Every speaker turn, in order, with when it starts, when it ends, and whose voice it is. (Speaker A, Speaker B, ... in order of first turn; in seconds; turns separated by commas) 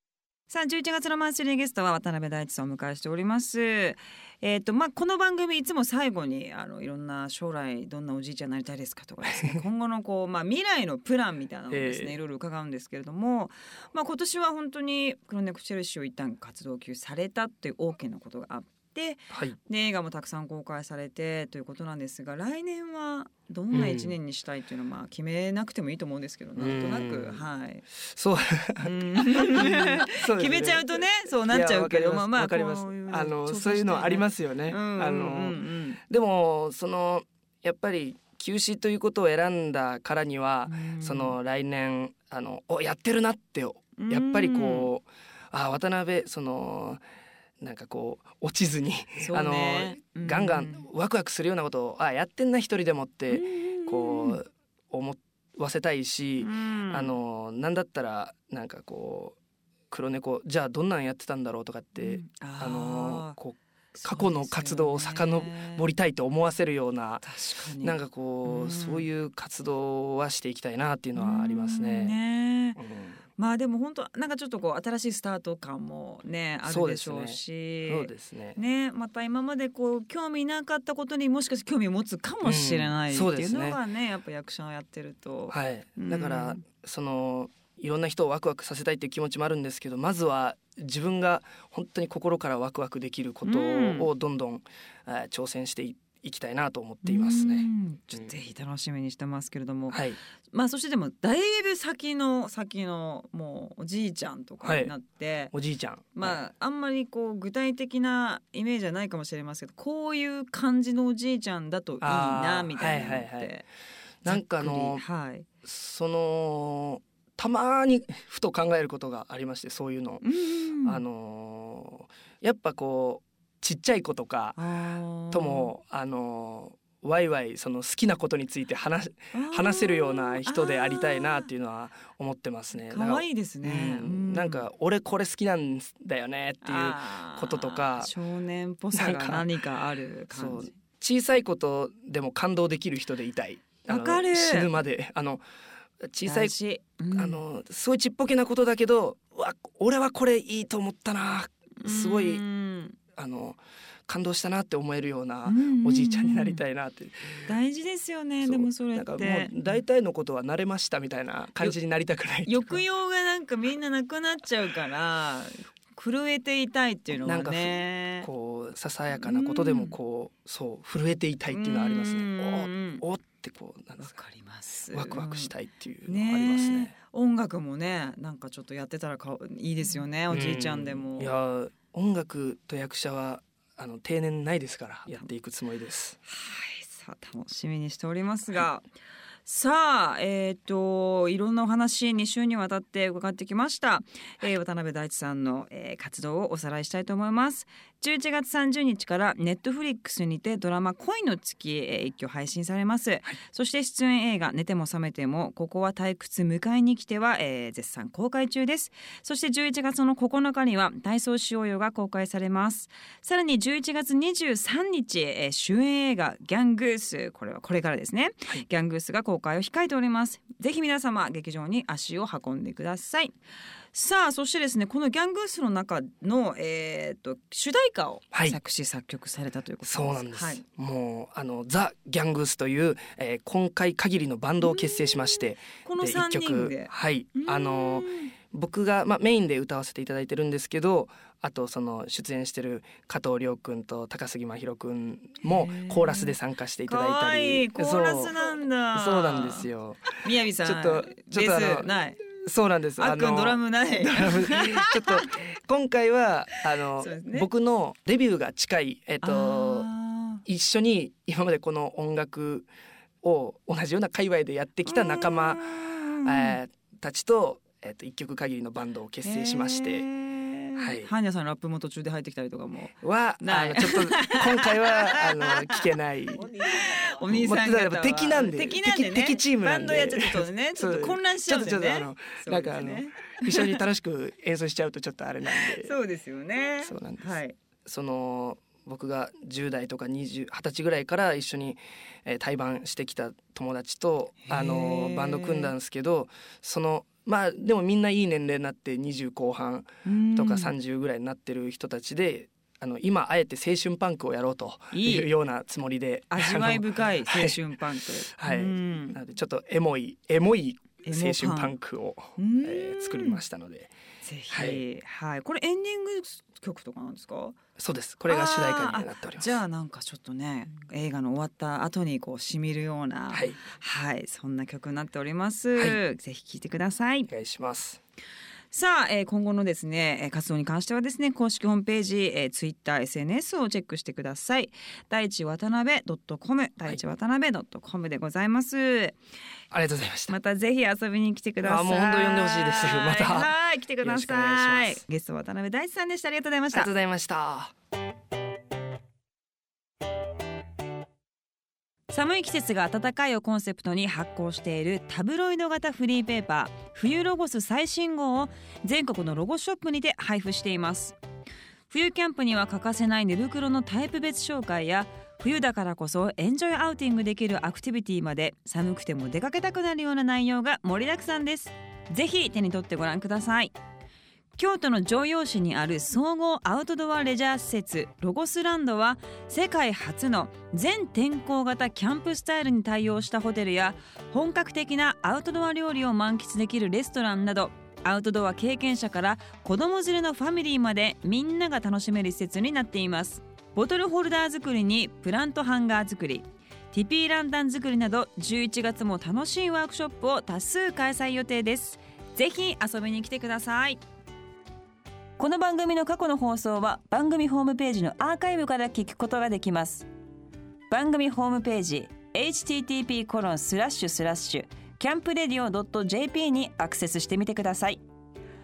Speaker A: 0.5-27.8, Speaker B: 9.2-9.6, Speaker B: 11.7-12.2, Speaker B: 19.3-19.6, Speaker B: 23.7-24.1, Speaker B: 26.6-27.4, Speaker B: 28.0-47.0, Speaker A: 28.8-36.0, Speaker A: 40.6-41.4, Speaker A: 44.0-44.9, Speaker B: 47.6-59.4, Speaker A: 49.2-50.8, Speaker A: 53.3-54.4, Speaker A: 56.4-57.1, Speaker B: 59.9-67.3, Speaker A: 62.0-63.4, Speaker A: 63.9-65.8, Speaker A: 67.2-69.0, Speaker B: 67.8-72.2, Speaker A: 71.2-72.8, Speaker B: 72.8-73.2, Speaker A: 73.4-86.6, Speaker B: 76.7-78.6, Speaker B: 82.4-83.8, Speaker B: 85.5-98.3, Speaker A: 93.4-94.1, Speaker A: 97.0-105.5, Speaker B: 99.9-100.2, Speaker B: 104.6-104.9, Speaker B: 105.5-106.4, Speaker A: 106.1-113.7, Speaker B: 112.0-113.5, Speaker B: 114.2-115.0, Speaker A: 114.2-115.5, Speaker B: 115.6-120.2, Speaker A: 120.2-121.0, Speaker B: 120.8-124.6, Speaker A: 124.5-125.7, Speaker B: 125.3-138.1, Speaker A: 129.3-131.5, Speaker A: 132.9-134.6, Speaker A: 136.6-140.7, Speaker B: 138.9-139.5, Speaker B: 140.3-145.4, Speaker A: 143.9-144.7, Speaker B: 146.0-146.5, Speaker A: 146.2-147.4, Speaker B: 147.1-152.4, Speaker A: 151.8-153.0, Speaker B: 153.1-157.5, Speaker A: 155.4-156.6, Speaker A: 157.4-159.7, Speaker B: 158.4-162.8, Speaker A: 162.4-168.3, Speaker B: 167.2-174.2, Speaker A: 169.1-169.9, Speaker A: 171.5-173.0, Speaker A: 174.0-175.5, Speaker B: 174.9-176.9, Speaker A: 176.1-181.3, Speaker B: 180.3-186.2, Speaker A: 186.3-188.8, Speaker A: 189.4-223.3, Speaker A: 223.9-230.6, Speaker B: 228.3-228.6, Speaker B: 229.8-248.3, Speaker A: 234.6-238.3, Speaker A: 245.4-246.3, Speaker A: 246.8-249.7, Speaker B: 248.9-259.9, Speaker A: 250.2-252.2, Speaker A: 253.0-255.4, Speaker A: 257.0-257.5, Speaker A: 259.2-260.4, Speaker B: 260.4-262.7, Speaker B: 263.2-270.1, Speaker A: 264.9-266.6, Speaker A: 269.2-275.8, Speaker B: 270.8-271.1, Speaker B: 273.0-276.6, Speaker A: 276.5-283.8, Speaker B: 277.2-285.9, Speaker A: 285.5-287.6, Speaker B: 286.8-307.7, Speaker A: 294.4-295.7, Speaker A: 300.0-300.7, Speaker A: 304.9-305.3, Speaker A: 306.3-309.2, Speaker B: 308.3-313.9, Speaker A: 311.0-311.7, Speaker A: 312.4-313.4, Speaker A: 314.2-317.6, Speaker B: 314.5-314.8, Speaker B: 317.8-319.6, Speaker A: 318.3-327.3, Speaker B: 323.3-323.6, Speaker B: 327.3-328.0, Speaker A: 328.7-339.1, Speaker B: 339.7-340.4, Speaker A: 340.3-346.9, Speaker B: 341.6-345.0, Speaker B: 346.7-347.7, Speaker A: 352.1-361.2, Speaker A: 361.9-373.7, Speaker A: 374.6-404.0, Speaker A: 405.4-410.1, Speaker A: 410.9-418.0